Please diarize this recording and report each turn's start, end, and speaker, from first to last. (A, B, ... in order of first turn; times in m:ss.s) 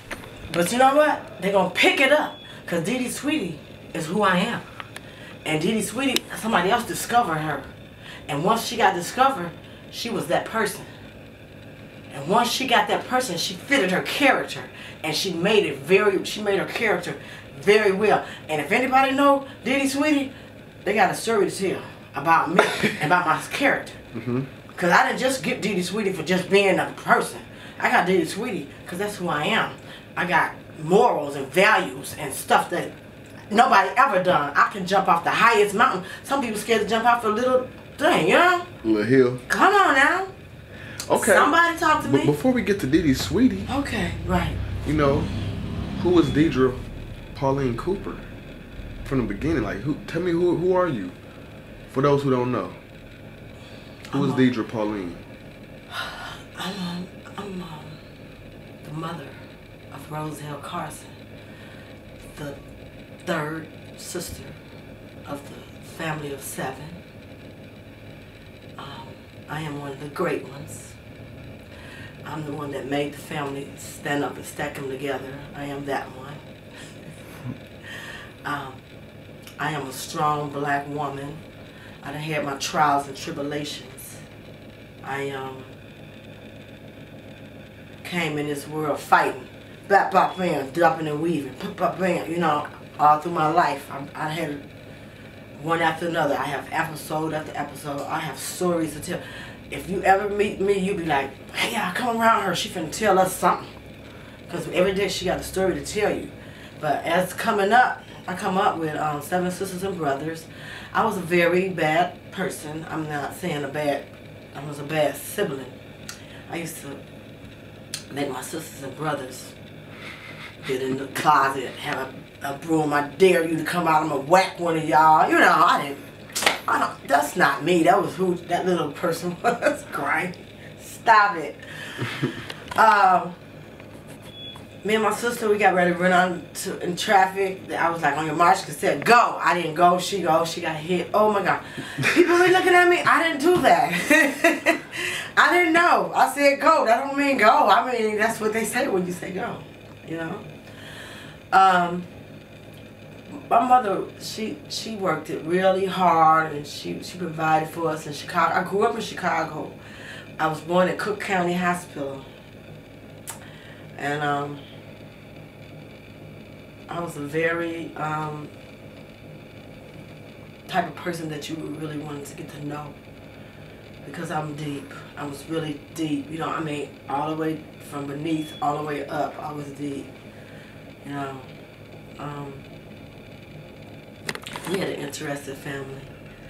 0:00.5-0:04.6 A
0:05.4-0:07.7 A
0:08.3-0:10.9 A
0:12.1-0:20.3 A
0:20.8-0:24.0 A
0:24.1-0:24.5 B
0:24.7-0:32.9 A
0:33.5-0:38.6 A
0:38.8-0:39.4 B
0:39.5-0:40.3 A
0:41.1-0:43.7 B
0:41.1-0:42.3 A
0:43.7-0:44.6 A
0:44.8-0:45.3 B
0:46.0-0:46.8 B
0:47.3-0:48.3 B
0:49.0-0:51.2 B
0:51.9-0:52.8 B
0:54.0-0:54.5 A
0:54.1-0:55.2 B
0:55.9-0:58.0 A
0:58.8-0:59.4 A
0:59.9-1:01.1 A
1:03.2-1:04.6 A
1:05.2-1:07.0 A
1:08.8-1:11.0 A
1:12.2-1:16.4 A
1:18.4-1:18.8 A
1:19.6-1:21.4 A
1:22.0-1:24.2 A
1:25.0-1:25.7 A
1:28.0-1:34.6 A
1:35.5-1:43.7 A
1:44.5-1:55.8 A
1:56.5-1:57.0 A
1:58.1-1:59.5 A
2:00.6-2:13.3 A
2:14.8-2:30.4 A
2:31.5-2:32.1 A
2:33.5-2:39.8 A
2:40.4-2:42.3 A
2:44.0-2:44.6 A
2:46.9-2:48.5 A
2:50.7-2:53.0 A
2:54.0-3:00.1 A
3:01.0-3:01.5 A
3:02.2-3:02.6 A
3:04.6-3:06.1 A